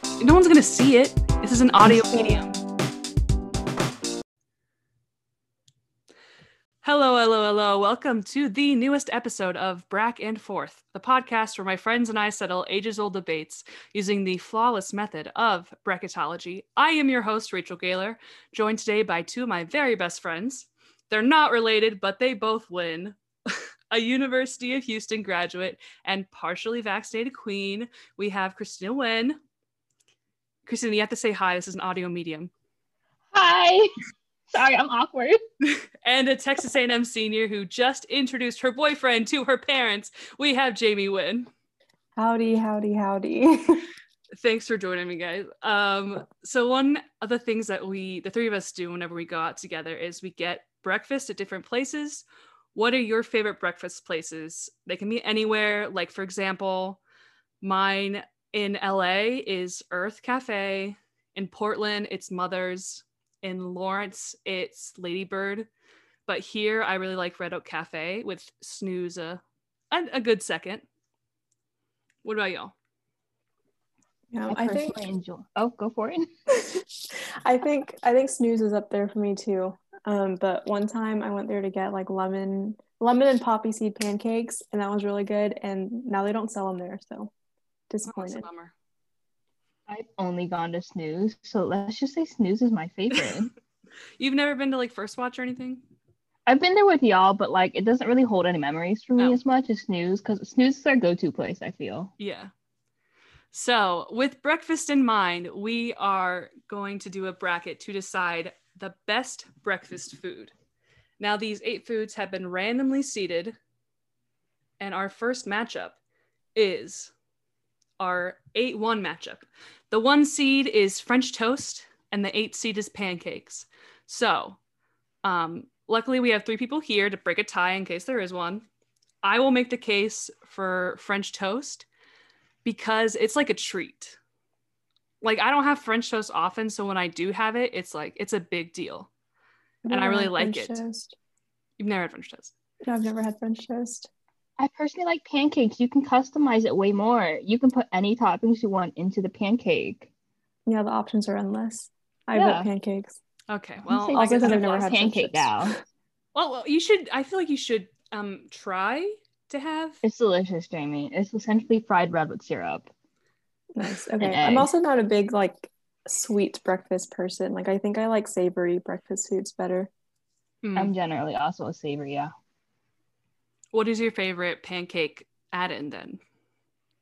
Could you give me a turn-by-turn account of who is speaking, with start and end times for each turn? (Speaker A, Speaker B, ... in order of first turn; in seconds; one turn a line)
Speaker A: 0.2-2.6
Speaker B: 1.9-2.4
Speaker A: 6.8-23.2
Speaker A: 23.9-29.4
Speaker A: 30.7-32.5
Speaker B: 33.3-33.9
Speaker B: 34.5-35.4
Speaker A: 35.8-41.5
Speaker C: 42.2-43.9
Speaker A: 44.4-57.0
Speaker A: 57.6-65.7
Speaker A: 66.3-70.8
Speaker A: 72.2-72.7
Speaker C: 74.3-75.1
Speaker B: 74.5-76.3
Speaker C: 76.6-76.8
Speaker C: 77.4-87.3
Speaker C: 87.9-88.5
Speaker A: 88.0-88.7
Speaker B: 89.9-93.5
Speaker A: 94.2-95.8
Speaker B: 96.5-102.1
Speaker A: 102.2-102.5
Speaker A: 103.5-110.5
Speaker A: 111.2-113.6
Speaker A: 114.8-116.0
Speaker A: 116.5-117.1
Speaker A: 118.0-124.6
Speaker A: 125.2-128.7
Speaker A: 129.2-131.9
Speaker A: 132.7-134.2
Speaker A: 135.2-139.1
Speaker C: 139.9-141.2
Speaker A: 139.9-140.8
Speaker A: 141.8-142.5
Speaker C: 142.8-144.1
Speaker B: 144.6-150.1
Speaker C: 150.7-153.2
Speaker B: 152.3-152.7
Speaker A: 153.5-154.9
Speaker B: 153.9-155.8
Speaker C: 154.2-155.5
Speaker A: 156.3-160.0
Speaker B: 160.0-162.9
Speaker C: 163.7-169.9
Speaker B: 164.2-164.7
Speaker A: 170.6-170.9
Speaker B: 170.8-172.3
Speaker A: 173.7-176.2